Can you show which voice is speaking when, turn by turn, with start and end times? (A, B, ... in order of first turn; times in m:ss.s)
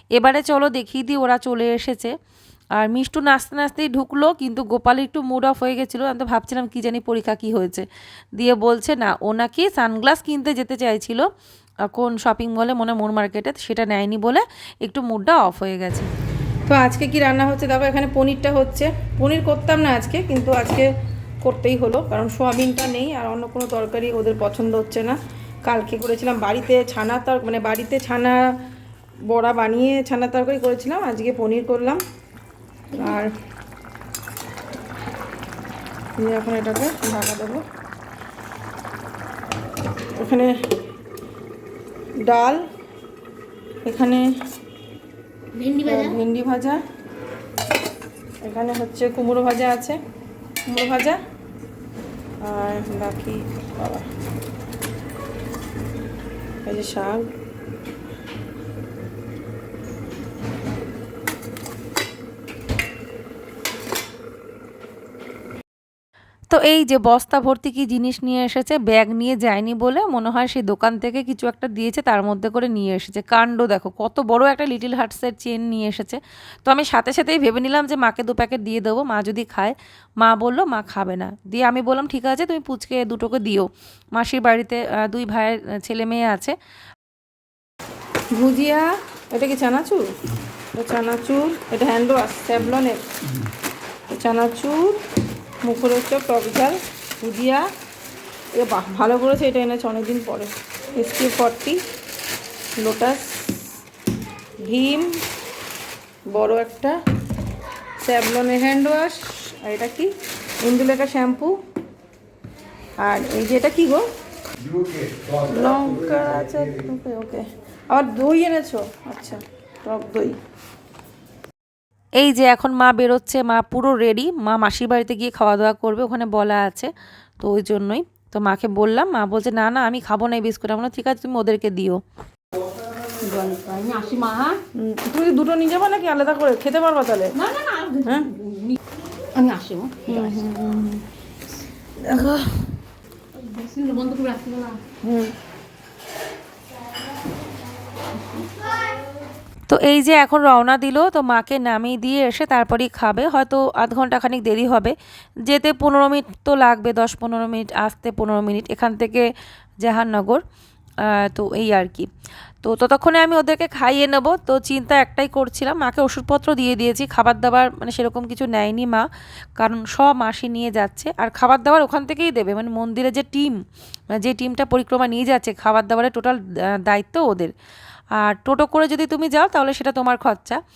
0:00.2-0:02.1 A
0:02.8-0:11.2 A
0:11.9-0:16.1 A
0:16.7-0:20.9 B
0:21.4-0:28.4 B
0:29.3-0:32.0 B
0:32.9-0:33.3 B
0:36.2-0:37.6 B
0:40.2-0:40.5 B
0:42.2-0:42.6 B
0:43.8-0:44.3 B
0:45.5-0:46.0 C
0:45.8-0:46.8 B
0:48.4-0:50.0 B
0:50.7-0:51.2 B
0:52.4-0:54.1 B
0:56.6-0:57.2 B
1:06.5-1:26.6 A
1:28.4-1:30.1 B
1:30.8-1:33.0 B
1:34.1-1:35.0 B
1:35.6-1:37.7 B
1:38.6-1:41.8 B
1:42.8-1:43.8 B
1:44.6-1:45.2 B
1:46.3-1:47.0 B
1:48.0-1:50.1 B
1:50.6-1:51.6 B
1:53.0-1:54.0 B
1:55.5-2:00.4 B
2:02.2-2:12.0 A
2:13.2-2:14.6 C
2:14.8-2:17.4 B
2:17.4-2:18.8 C
2:18.0-2:18.3 B
2:19.3-2:20.4 C
2:20.1-2:21.0 B
2:22.0-2:22.7 B
2:23.4-2:24.8 C
2:25.0-2:25.3 B
2:29.7-2:35.0 A
2:35.5-2:39.3 A
2:39.8-2:40.4 A
2:41.0-2:42.1 A
2:42.6-2:49.1 A
2:49.6-2:53.6 A
2:54.2-2:57.5 A
2:58.2-3:00.6 A